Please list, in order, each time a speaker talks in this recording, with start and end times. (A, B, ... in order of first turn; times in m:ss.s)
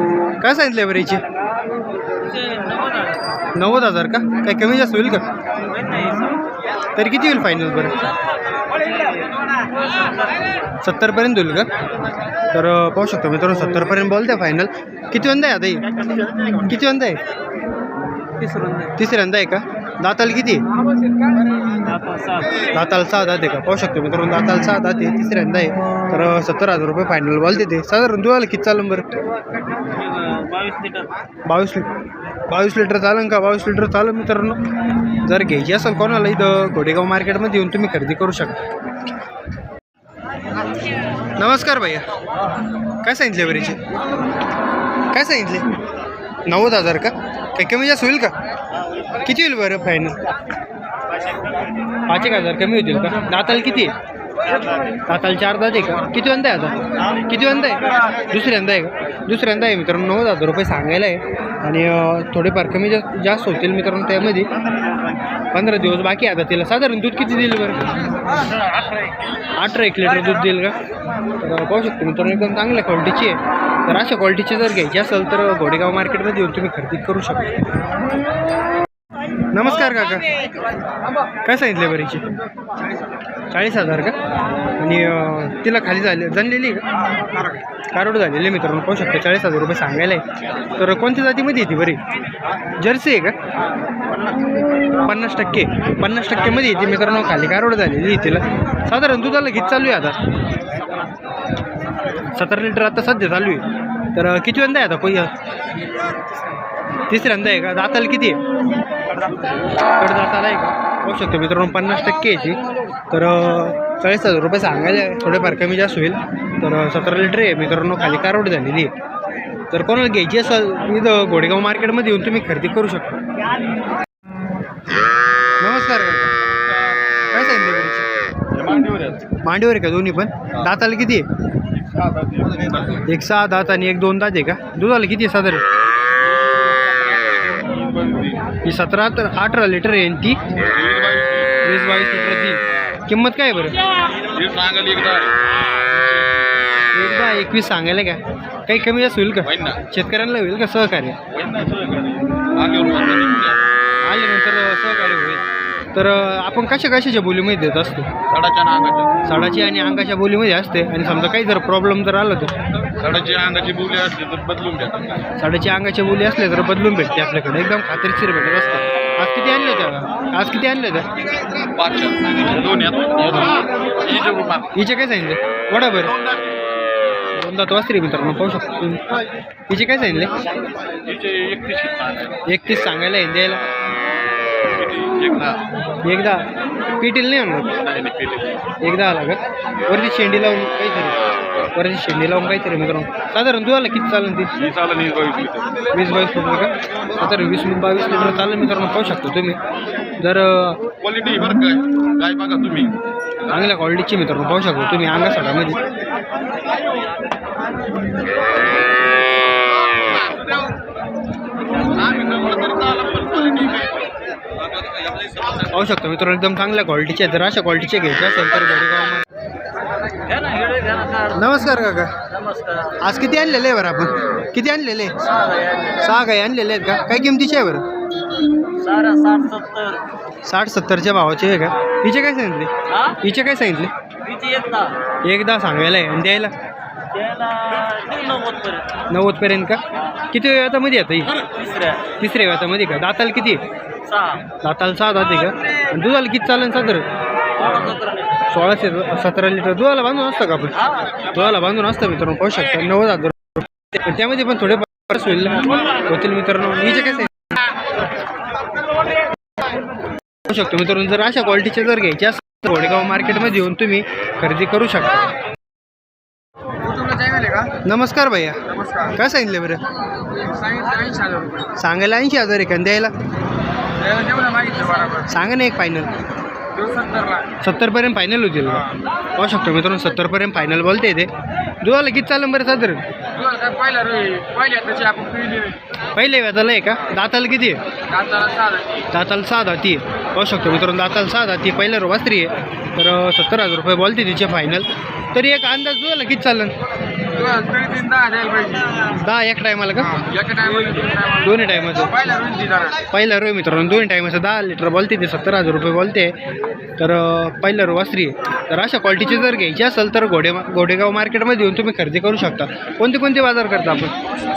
0:00.4-0:01.2 A
0:02.2-0:03.2 B
0:03.5-0:05.2 A
0:05.6-0:06.4 B
0:07.0-0:08.0 A
0:09.6-0:10.4 B
0:10.8-0:11.7 A
0:12.5-0:15.9 A
0:16.6-0:17.2 A
0:18.4-0:18.9 B
0:19.0-0:20.6 A
0:21.7-0:22.7 B
0:22.7-0:29.1 A
0:29.7-0:31.1 B
0:31.5-0:31.9 A
0:32.5-0:34.6 A
0:35.2-0:38.6 A
0:41.4-0:42.0 A
0:43.0-0:43.8 A
0:45.1-0:45.7 A
0:46.5-0:48.3 A
0:49.2-0:50.2 A
0:52.1-0:54.0 A
0:55.0-1:04.5 A
1:05.5-1:08.1 A
1:09.6-1:10.8 A
1:11.4-1:17.5 A
1:19.5-1:20.3 A
1:21.4-1:22.2 A
1:23.5-1:24.2 A
1:24.8-1:26.8 A
1:27.9-1:30.2 A
1:30.7-1:32.0 A
1:32.8-1:33.4 A
1:34.9-1:40.2 A
1:42.3-1:45.3 A
1:47.1-1:48.4 A
1:50.0-1:58.9 A
1:59.7-2:03.2 A
2:05.6-2:06.4 A
2:06.7-2:07.0 C
2:07.3-2:08.2 A
2:08.5-2:09.4 C
2:09.4-2:11.2 A
2:11.9-2:13.0 C
2:13.0-2:15.7 A
2:16.4-2:18.4 C
2:18.6-2:20.5 A
2:20.5-2:21.6 C
2:21.6-2:23.8 A
2:24.1-2:25.4 C
2:25.9-2:26.4 C
2:26.9-2:31.2 A
2:29.5-2:29.8 C
2:31.3-2:33.6 C
2:34.0-2:38.1 A
2:38.3-2:39.2 C
2:39.2-2:42.5 A
2:43.0-2:45.2 C
2:45.4-2:51.1 A
2:51.8-2:54.7 C
2:54.8-2:56.2 A
2:56.2-2:56.6 C
2:57.4-3:00.3 A
3:01.0-3:02.4 C
3:02.5-3:03.6 A
3:04.6-3:05.6 C
3:06.0-3:06.5 A
3:07.0-3:07.7 A
3:07.8-3:08.8 C
3:08.8-3:11.2 A
3:11.8-3:14.5 A
3:14.6-3:15.8 C
3:15.9-3:19.6 A
3:20.2-3:20.8 A
3:21.0-3:23.0 C
3:23.5-3:25.8 A
3:31.8-3:34.0 C
3:35.5-3:39.2 A
3:40.2-3:41.5 B
3:41.3-3:42.1 A
3:42.3-3:43.0 B
3:43.0-3:45.2 A
3:45.2-3:46.1 B
3:46.0-3:47.8 A
3:48.8-3:50.0 B
3:50.4-3:52.7 A
3:52.9-3:53.2 B
3:53.2-3:53.9 A
3:54.2-3:54.9 B
3:55.2-3:56.5 A
3:57.1-3:59.0 B
3:59.1-3:59.8 A
4:00.3-4:01.3 A
4:01.5-4:02.1 B
4:02.2-4:03.6 A
4:04.1-4:04.4 B
4:04.6-4:07.0 A
4:07.6-4:08.4 B
4:08.5-4:17.6 A
4:10.8-4:11.1 B
4:20.4-4:25.2 A
4:26.8-4:27.7 D
4:27.8-4:29.8 A
4:30.3-4:31.7 D
4:31.8-4:33.1 A
4:34.0-4:35.2 D
4:35.2-4:36.1 A
4:36.7-4:37.5 D
4:37.6-4:41.3 A
4:41.8-4:43.0 A
4:43.3-4:45.8 D
4:46.1-4:47.8 A
4:48.1-4:49.0 D
4:49.1-4:56.8 A
4:57.3-4:59.1 D
4:59.0-5:00.3 A
5:00.4-5:01.1 C
5:00.4-5:01.4 D
5:01.4-5:02.4 A
5:02.3-5:03.0 D
5:03.0-5:06.4 A
5:07.0-5:14.1 A